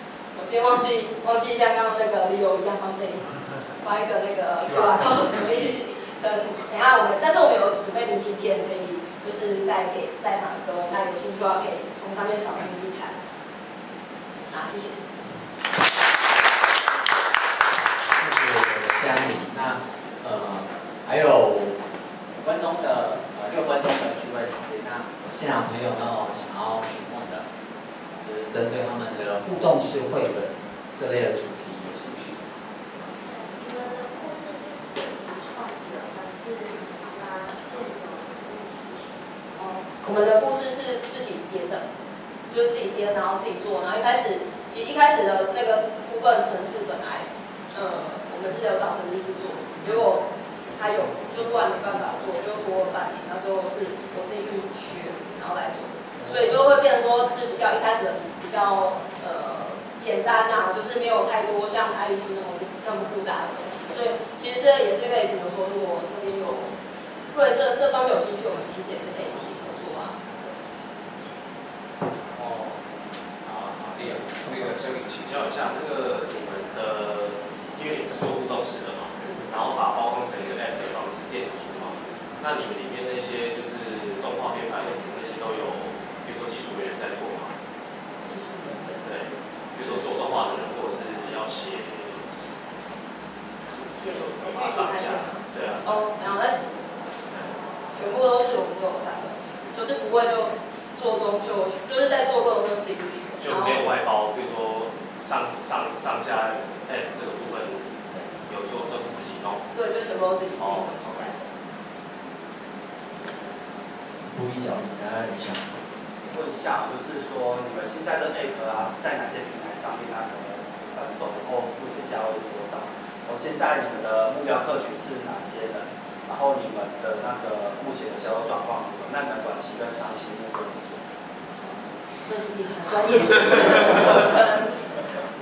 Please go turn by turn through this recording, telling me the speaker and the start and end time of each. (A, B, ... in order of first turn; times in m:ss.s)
0:00.3-0:13.1 A
0:14.5-0:15.0 A
0:18.1-0:21.8 B
0:22.4-0:27.4 B
0:28.2-0:32.4 B
0:33.3-0:39.8 C
0:40.0-0:41.8 A
0:42.5-0:50.2 A
0:50.8-1:06.7 A
1:07.3-1:10.2 A
1:12.3-1:12.7 D
1:13.4-1:27.5 D
1:28.2-1:29.0 A
1:29.0-1:32.3 D
1:33.7-1:36.8 A
1:34.0-1:35.8 D
1:37.3-1:37.5 D
1:37.9-1:43.8 A
1:43.4-1:47.9 D
1:48.5-1:49.6 D
1:49.7-1:51.5 A
1:50.6-1:51.3 D
1:54.2-1:55.8 B
1:56.2-2:11.0 E
2:12.2-2:14.8 A